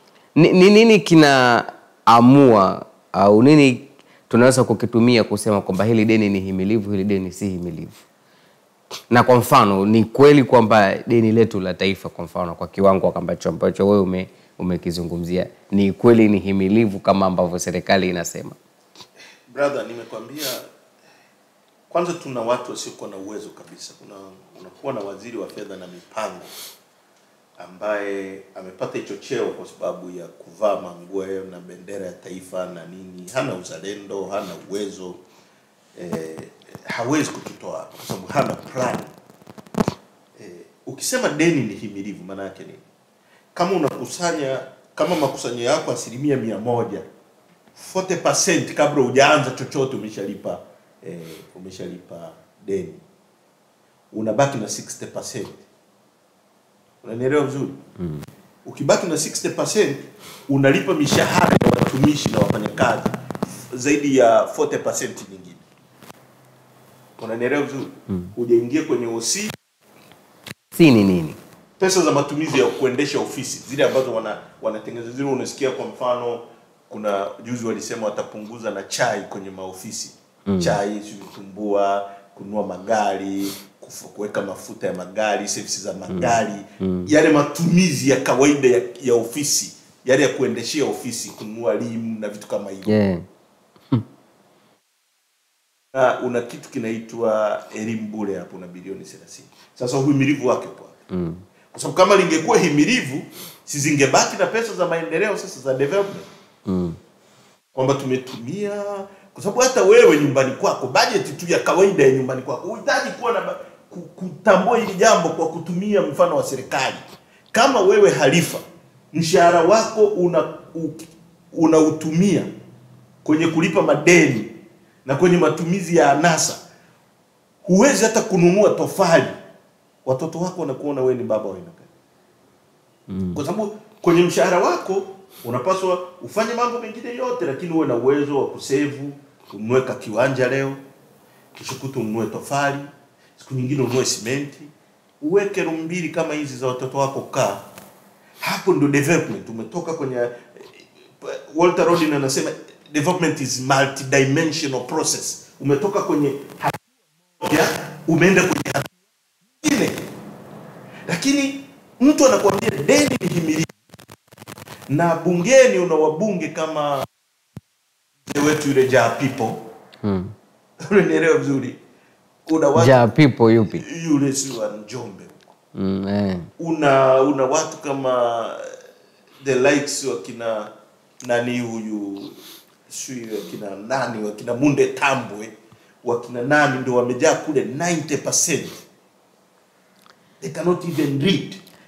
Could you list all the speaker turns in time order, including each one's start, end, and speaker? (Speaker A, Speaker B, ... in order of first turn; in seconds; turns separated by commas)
Speaker A: 0.3-8.0, Speaker A: 9.1-18.6, Speaker B: 19.5-20.7, Speaker B: 21.9-26.5, Speaker B: 27.6-35.2, Speaker B: 36.0-39.1, Speaker B: 40.4-42.8, Speaker B: 43.5-47.0, Speaker B: 47.7-53.0, Speaker B: 54.1-55.6, Speaker B: 57.0-57.8, Speaker A: 58.0-58.2, Speaker B: 58.6-65.6, Speaker B: 67.2-69.5, Speaker A: 70.7-71.4, Speaker B: 71.8-92.9, Speaker A: 80.5-80.8, Speaker A: 86.1-87.1, Speaker A: 92.9-93.2, Speaker B: 95.9-101.0, Speaker A: 101.1-101.4, Speaker B: 101.7-106.3, Speaker A: 106.7-107.0, Speaker B: 107.7-122.5, Speaker B: 123.2-126.6, Speaker B: 127.6-129.4, Speaker B: 130.0-131.9, Speaker A: 133.1-133.4, Speaker B: 133.3-140.8, Speaker B: 141.5-147.6, Speaker B: 148.4-156.9, Speaker B: 157.4-158.9, Speaker B: 159.6-160.1, Speaker B: 161.1-163.7, Speaker B: 164.9-167.1, Speaker B: 168.2-169.7, Speaker A: 170.0-170.3, Speaker B: 170.8-171.8, Speaker B: 172.4-173.1, Speaker A: 172.8-173.8, Speaker B: 173.7-175.5, Speaker A: 175.7-176.5, Speaker B: 176.6-178.8, Speaker B: 179.4-188.8, Speaker B: 190.4-191.6